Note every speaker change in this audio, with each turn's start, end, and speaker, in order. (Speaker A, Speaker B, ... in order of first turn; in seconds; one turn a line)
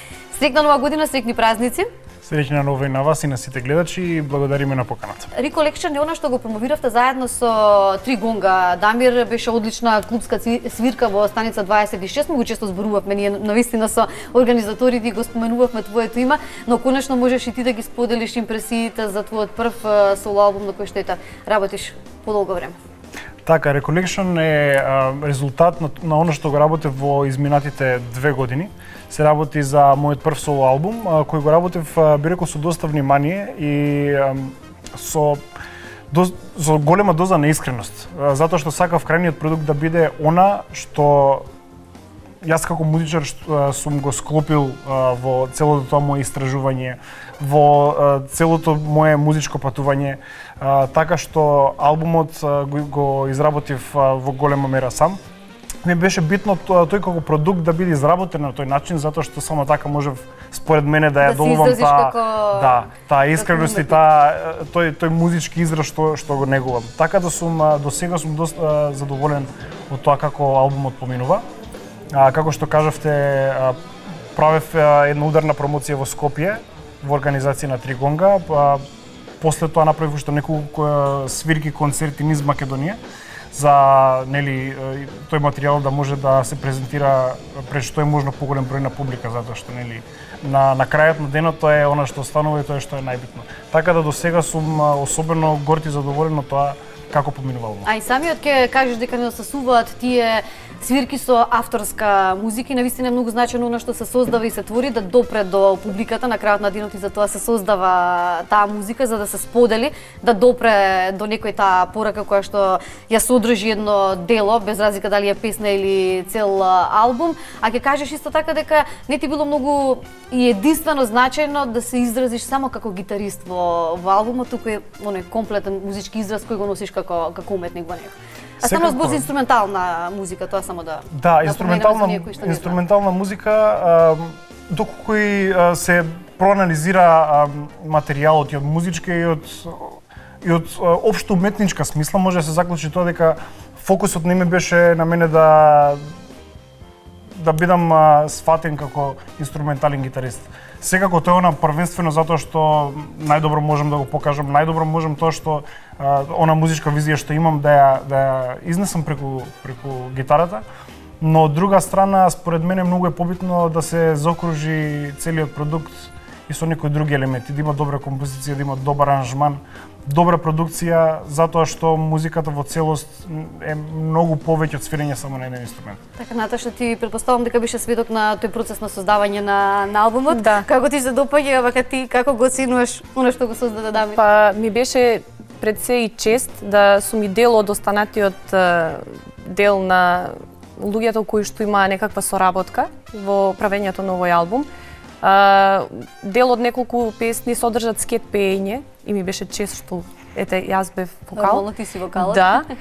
Speaker A: 0.3-1.9
Speaker B: 2.2-5.3
Speaker A: 5.3-22.8
Speaker B: 23.4-35.4
Speaker B: 36.1-41.5
Speaker B: 42.4-55.2
Speaker B: 55.8-71.4
Speaker A: 61.2-64.0
Speaker B: 72.1-73.8
Speaker B: 74.3-78.8
Speaker B: 79.4-83.0
Speaker B: 83.5-97.9
Speaker A: 97.8-132.8
Speaker B: 128.6-129.2
Speaker B: 131.1-146.0
Speaker B: 147.3-160.6
Speaker B: 161.2-176.0
Speaker A: 176.2-184.2
Speaker C: 180.3-180.7
Speaker C: 184.1-194.7
Speaker C: 195.2-201.6
Speaker A: 201.3-202.6
Speaker C: 202.2-202.6